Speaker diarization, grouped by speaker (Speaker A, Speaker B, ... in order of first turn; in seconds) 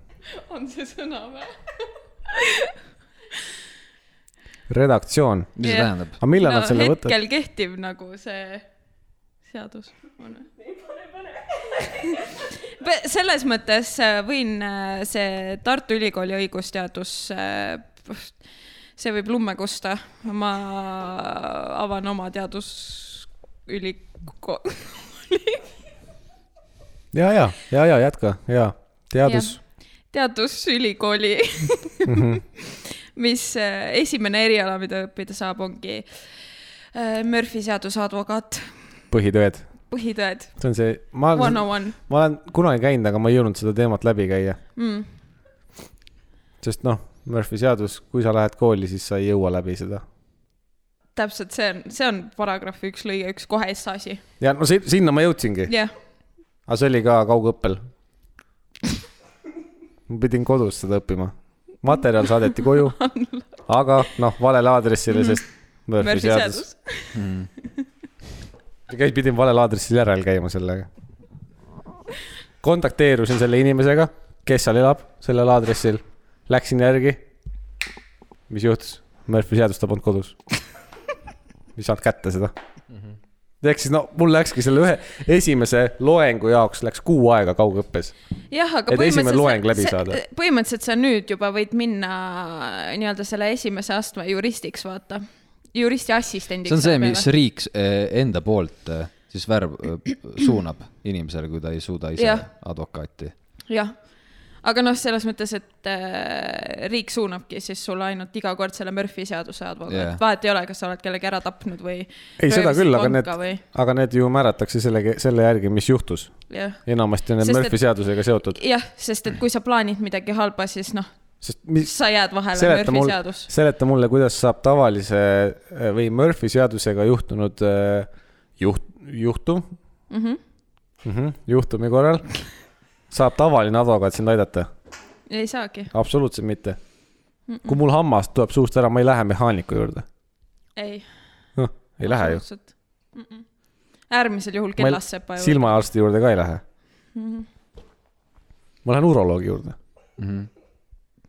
Speaker A: 0.3-1.6, 2.3-2.8, 5.6-8.7, 9.5-10.5, 11.7-18.3, 19.0-25.6, 29.2-29.6, 30.1-36.3, 36.9-38.8, 39.9-40.5, 41.3-42.0, 44.8-45.1, 51.2-54.2, 62.5-63.5, 65.1-65.4, 66.0-67.2, 88.5-97.3, 102.2-102.5, 103.7-104.0, 104.6-113.6, 116.5-116.8, 117.4-117.8, 118.5-121.1, 121.8-123.5, 130.1-130.4, 135.3-135.9, 137.5-137.8, 140.8-141.1, 142.0-143.4, 144.1-145.7, 147.2-147.5
Speaker B: 4.7-5.6, 6.2-7.2, 27.1-29.6, 32.1-32.4, 39.1-39.7, 40.6-44.6, 46.6-50.0, 54.4-55.7, 56.7-57.8, 60.1-63.0, 63.7-66.6, 68.9-70.9, 72.6-77.2, 78.5-80.4, 81.8-82.5, 83.6-88.1, 88.9-90.2, 112.4-116.3, 116.9-118.6, 121.4-121.9, 122.5-129.7, 131.0-132.3, 133.1-134.7, 135.9-136.8, 137.7-140.1, 141.6-142.4, 144.8-146.6, 148.8-149.8
Speaker C: 5.6-6.2, 67.2-67.5, 96.7-103.3, 109.9-110.2, 150.2-150.5